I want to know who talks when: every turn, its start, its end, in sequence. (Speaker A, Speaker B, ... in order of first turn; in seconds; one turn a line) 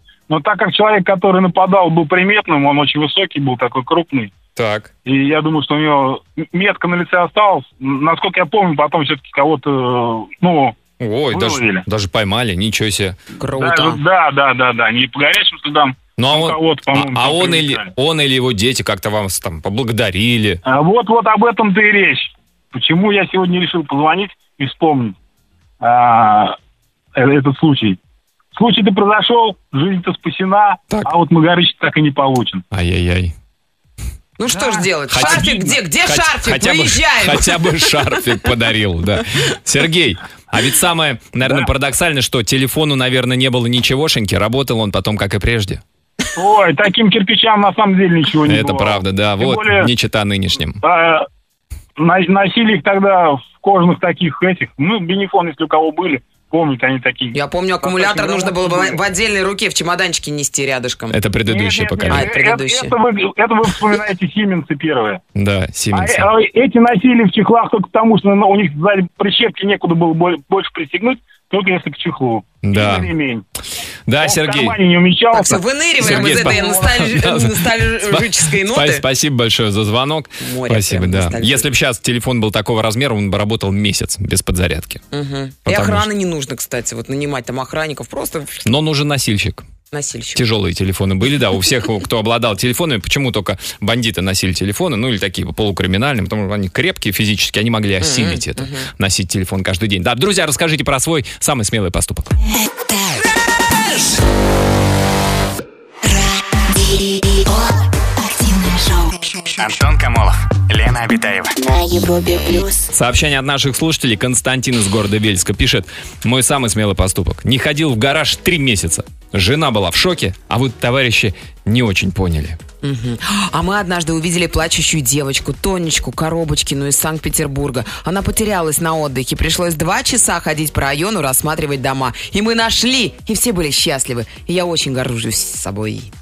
Speaker A: 0.3-4.3
Speaker B: 4.6-4.9
Speaker A: 5.1-10.8
Speaker B: 11.0-13.2
Speaker A: 11.3-11.9
Speaker C: 13.4-14.0
Speaker A: 13.6-17.9
Speaker B: 16.2-20.6
Speaker A: 20.6-25.2
Speaker A: 25.8-26.6
Speaker A: 27.1-28.0
Speaker A: 28.5-32.6
Speaker B: 32.7-33.3
Speaker C: 34.4-38.0
Speaker A: 34.5-35.5
Speaker B: 35.1-45.8
Speaker A: 46.4-49.9
Speaker B: 48.5-50.8
Speaker A: 50.8-51.3
Speaker A: 52.0-59.0
Speaker C: 57.3-61.2
Speaker B: 61.1-62.3
Speaker A: 61.5-65.2
Speaker C: 62.1-63.0
Speaker B: 65.3-66.3
Speaker A: 65.9-73.5
Speaker B: 72.6-73.1
Speaker B: 74.1-74.8
Speaker A: 74.2-76.9
Speaker C: 75.3-79.0
Speaker B: 76.0-85.0
Speaker C: 80.4-81.7
Speaker C: 85.1-88.7
Speaker B: 85.7-86.1
Speaker B: 88.7-89.7
Speaker C: 89.9-90.4
Speaker B: 90.3-102.4
Speaker C: 98.0-98.9
Speaker D: 106.0-109.7
Speaker E: 109.5-111.5
Speaker D: 111.6-112.9
Speaker B: 112.9-122.6
Speaker C: 122.8-136.1